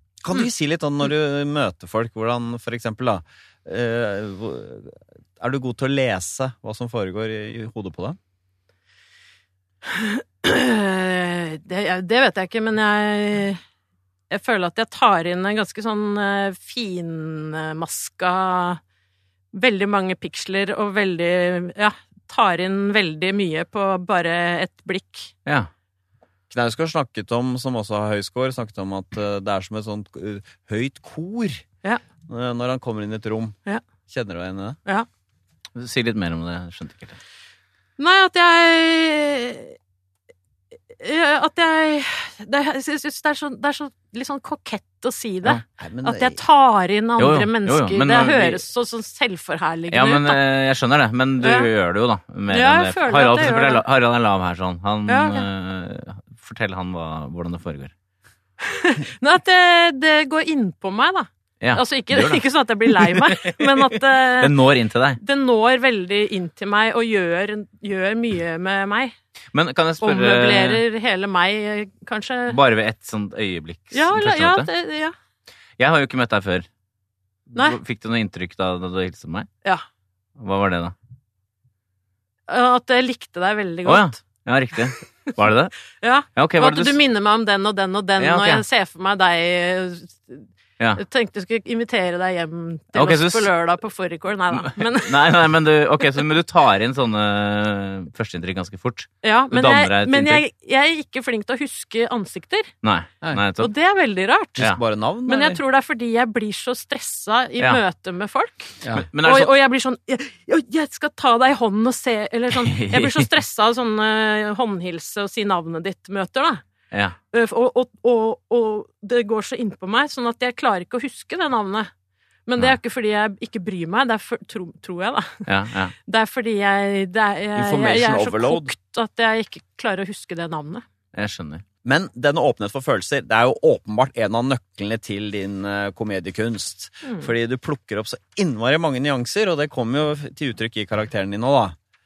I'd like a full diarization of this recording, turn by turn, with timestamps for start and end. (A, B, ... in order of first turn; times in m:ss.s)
0:00.2-0:08.2 A
0:09.9-0:13.6 B
0:14.3-0:18.8 B
0:19.5-0:25.3 B
0:26.5-0:31.6 A
0:32.3-0:33.6 A
0:34.1-0:34.8 A
0:35.8-0:37.2 C
0:38.0-0:39.8 B
0:40.9-0:50.4 B
0:45.8-0:46.4 A
0:47.2-0:48.6 C
0:49.9-0:57.9 C
0:51.4-0:51.7 B
0:52.5-0:53.8 B
0:55.1-0:55.5 B
0:58.6-1:04.6 B
1:01.6-1:05.2 C
1:05.2-1:09.1 B
1:09.5-1:10.8 C
1:10.0-1:12.6 B
1:12.5-1:14.7 C
1:13.9-1:15.1 B
1:15.8-1:16.7 C
1:17.5-1:19.5 C
1:20.4-1:20.9 C
1:22.5-1:24.2 B
1:23.8-1:25.8 C
1:26.0-1:35.4 B
1:26.4-1:27.0 C
1:28.2-1:28.6 C
1:33.0-1:33.5 C
1:34.6-1:40.4 C
1:39.2-1:42.7 B
1:42.8-1:43.7 C
1:43.6-1:44.7 B
1:44.6-1:45.6 A
1:45.3-1:56.6 B
1:49.1-1:49.5 C
1:52.5-1:53.3 C
1:56.9-1:57.2 C
1:57.3-2:01.9 B
2:02.5-2:05.5 B
2:05.5-2:06.0 C
2:06.0-2:10.8 B
2:07.6-2:08.7 A
2:11.1-2:11.6 C
2:11.8-2:21.8 A
2:17.0-2:17.3 B